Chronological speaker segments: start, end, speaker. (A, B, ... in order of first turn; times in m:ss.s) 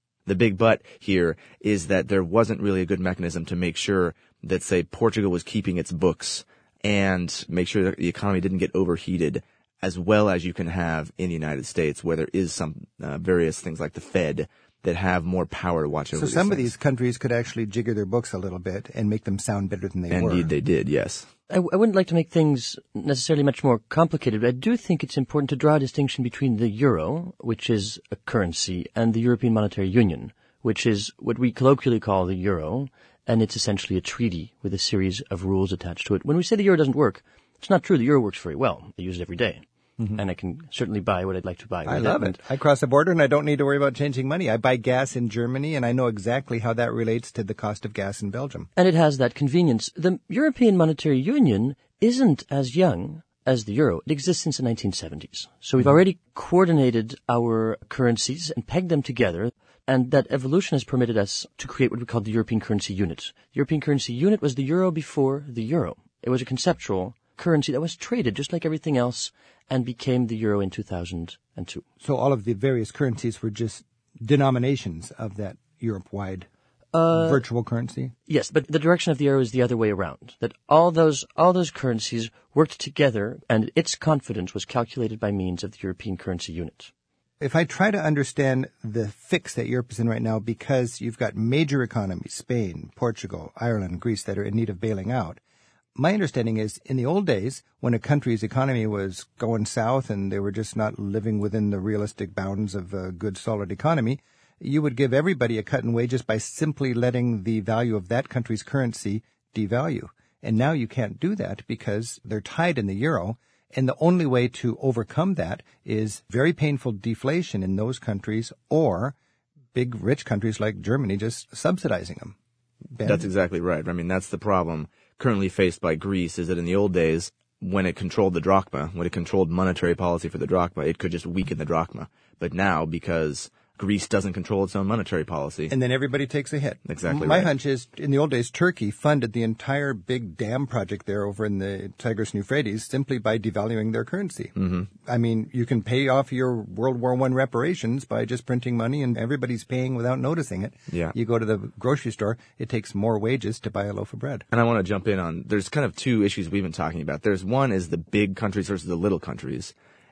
0:00.3-0:16.7 A
0:16.1-0:20.5 B
0:20.1-0:21.3 A
0:21.5-0:42.4 C
0:41.8-0:48.7 B
0:48.8-1:11.8 C
1:12.0-1:16.5 B
1:16.9-1:17.4 C
1:17.1-1:18.1 B
1:18.3-1:26.9 C
1:27.4-1:35.4 B
1:36.0-1:59.2 B
1:59.7-2:02.4 B
2:02.9-2:03.3 B
2:03.0-2:15.7 A
2:15.7-2:34.5 B
2:16.9-2:17.5 A
2:24.6-2:24.9 A
2:30.9-2:31.2 A
2:34.5-2:39.7 A